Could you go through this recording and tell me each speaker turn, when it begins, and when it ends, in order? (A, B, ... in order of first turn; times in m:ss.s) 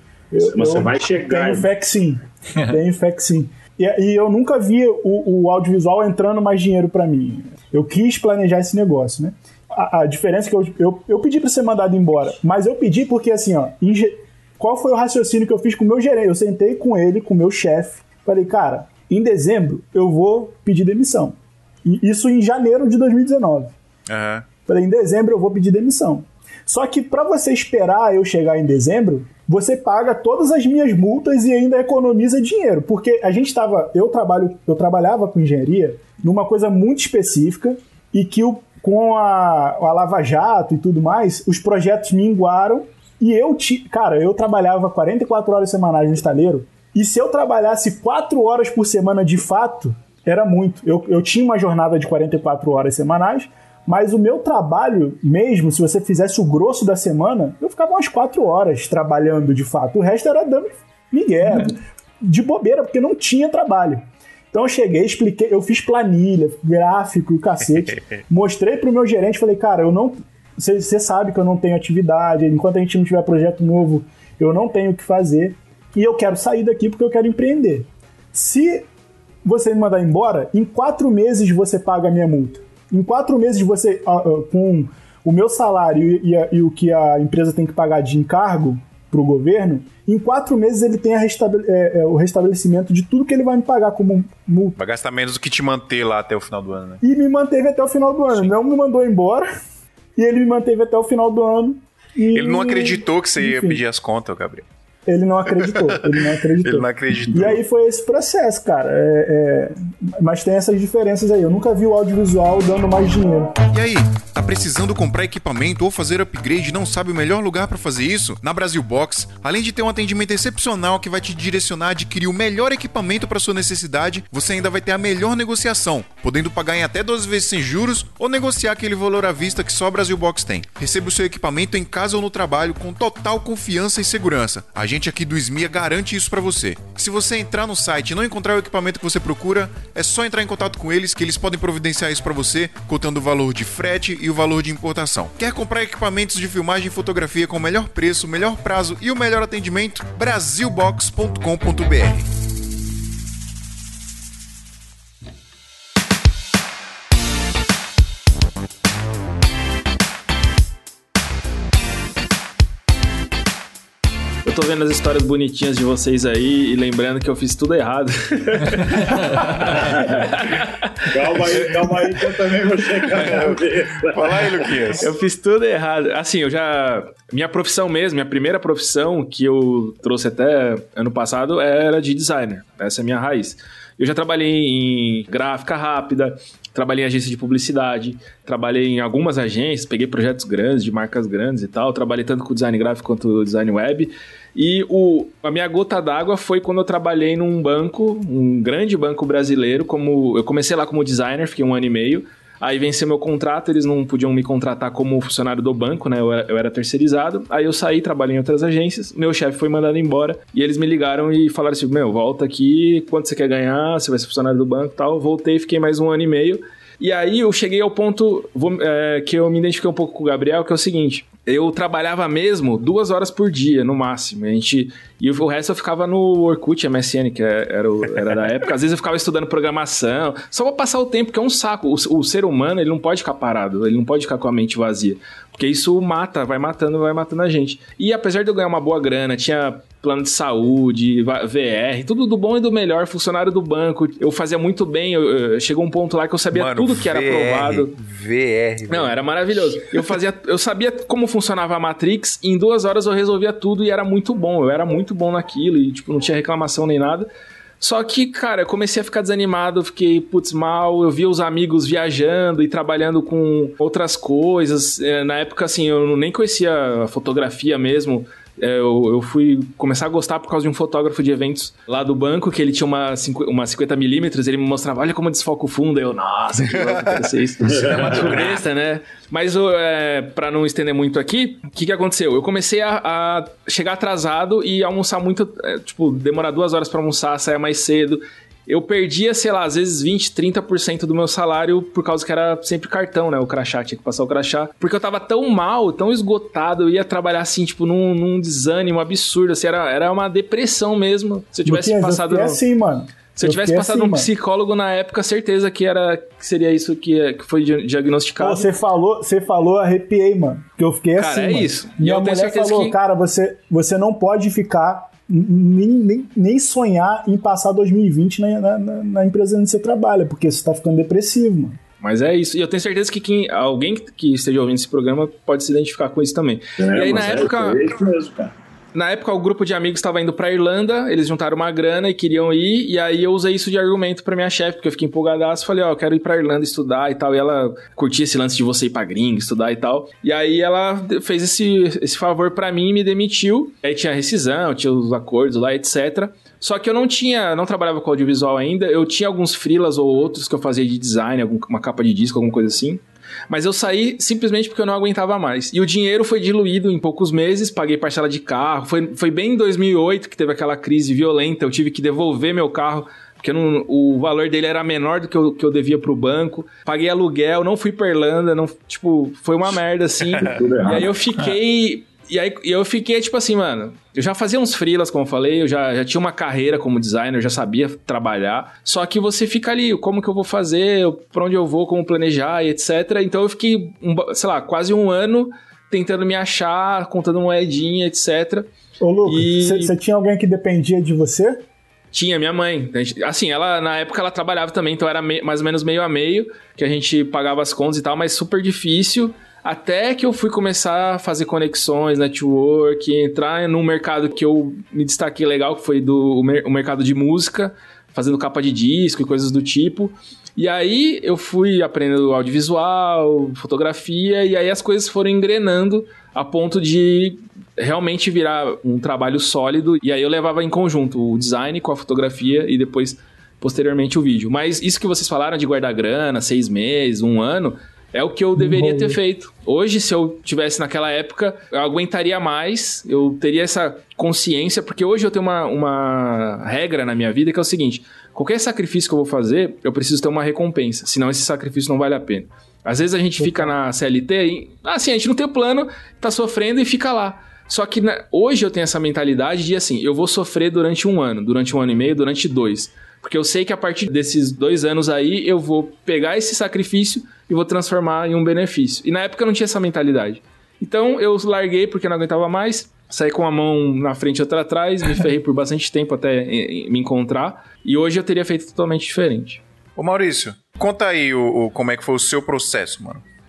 0:00.3-0:23.7 A
0:00.4-0:01.7 B
0:24.1-0:24.4 C
0:24.6-1:18.9 A
1:19.4-1:34.8 A
1:34.8-1:37.0 C
1:37.0-1:39.5 A
1:40.2-1:43.8 A
1:42.3-1:44.6 C
1:45.1-1:53.6 A
1:45.6-1:47.6 C
1:53.7-2:32.3 C
2:44.4-2:51.1 D
2:51.1-2:55.0 B
2:53.1-2:55.1 C
2:55.0-4:07.9 D
4:06.5-4:10.0 C
4:08.9-4:17.3 D
4:17.8-5:02.6 D
4:36.8-4:37.2 C
4:37.7-4:38.2 B
4:37.9-4:38.6 C
5:01.6-5:04.3 A
5:03.3-5:08.7 D
5:08.4-5:21.8 A
5:11.2-5:13.0 D
5:22.0-5:27.8 D
5:26.8-5:28.5 B
5:28.9-6:28.7 D
6:10.6-6:11.1 B
6:29.0-6:31.6 A
6:29.2-6:29.9 D
6:32.1-7:49.6 D
7:08.6-7:09.2 A
7:23.4-7:23.7 A
7:50.0-7:53.2 C